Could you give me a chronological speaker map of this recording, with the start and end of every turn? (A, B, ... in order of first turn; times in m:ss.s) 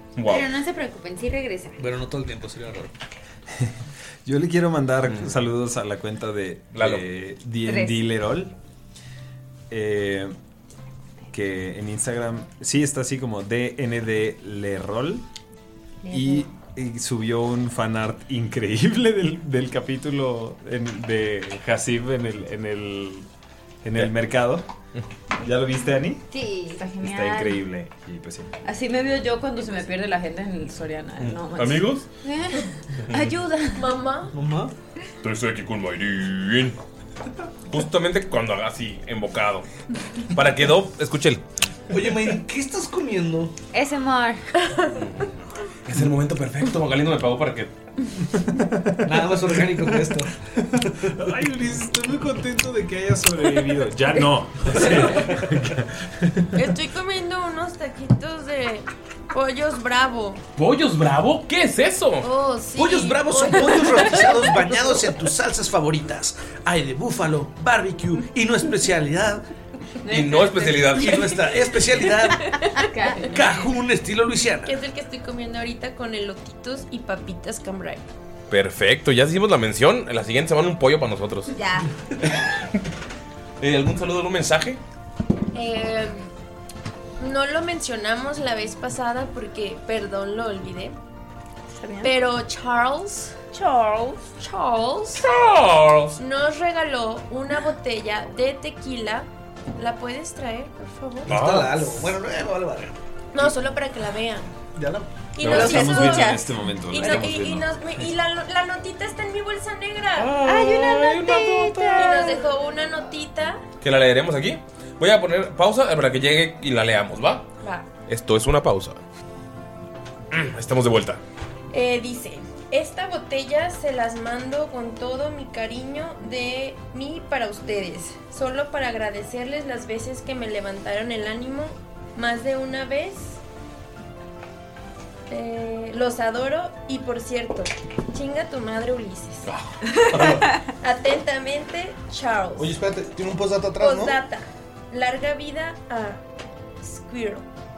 0:00.2-0:00.5 A
0:00.2-0:01.8 B
0:01.8-0:02.9 C
0:03.5-0:08.6 D
0:05.1-0:05.3 A
0:06.7-0:07.0 A
0:07.7-0:08.0 E
0:09.7-0:10.3 D
0:11.3-0:15.3 D
0:16.0-0:16.5 E
0:16.1-0:23.3 D
0:23.8-0:24.7 D
0:25.4-0:26.3 D
0:26.3-0:26.8 B
0:26.5-0:27.6 E
0:27.0-0:28.5 D
0:28.6-0:33.9 E
0:31.2-0:32.1 A
0:33.8-0:34.3 F
0:34.3-0:34.7 C
0:35.2-0:36.8 A
0:37.7-0:39.7 A
0:40.3-0:41.4 A
0:41.9-0:43.5 C
0:43.7-0:44.4 E
0:44.6-0:44.9 F
0:44.9-0:45.3 A
0:45.8-0:47.7 A
0:48.5-0:50.2 D
0:49.0-0:51.2 C
0:51.0-0:56.7 D
0:54.8-0:55.3 C
0:56.6-1:00.4 F
1:00.6-1:02.3 A
1:02.2-1:05.0 F
1:02.8-1:09.4 C
1:10.0-1:11.4 E
1:10.1-1:11.3 A
1:11.0-1:12.6 C
1:12.1-1:13.6 E
1:13.3-1:14.7 C
1:14.6-1:18.0 F
1:18.5-1:21.5 A
1:21.5-1:21.9 E
1:23.6-1:24.8 A
1:25.5-1:26.3 F
1:27.2-1:31.0 F
1:31.7-1:32.1 E
1:32.0-1:33.4 F
1:33.5-1:34.2 E
1:34.4-1:35.2 F
1:35.2-1:36.2 A
1:36.2-1:41.3 F
1:41.3-1:43.0 C
1:41.3-1:42.2 A
1:43.3-1:44.5 F
1:44.8-1:45.1 C
1:45.3-1:50.4 F
1:45.4-1:47.8 D
1:45.4-1:46.5 E
1:50.2-1:52.2 A
1:50.5-1:52.3 E
1:50.8-1:51.7 B
1:52.0-1:53.6 F
1:53.8-1:57.5 A
1:57.6-1:57.9 F
1:58.1-1:59.0 A
2:00.3-2:01.2 A
2:01.7-2:13.4 F
2:15.3-2:19.5 F
2:19.5-2:20.4 A
2:20.1-2:20.5 C
2:20.7-2:22.7 F
2:22.6-2:24.2 C
2:23.8-2:26.2 F
2:26.8-2:27.5 F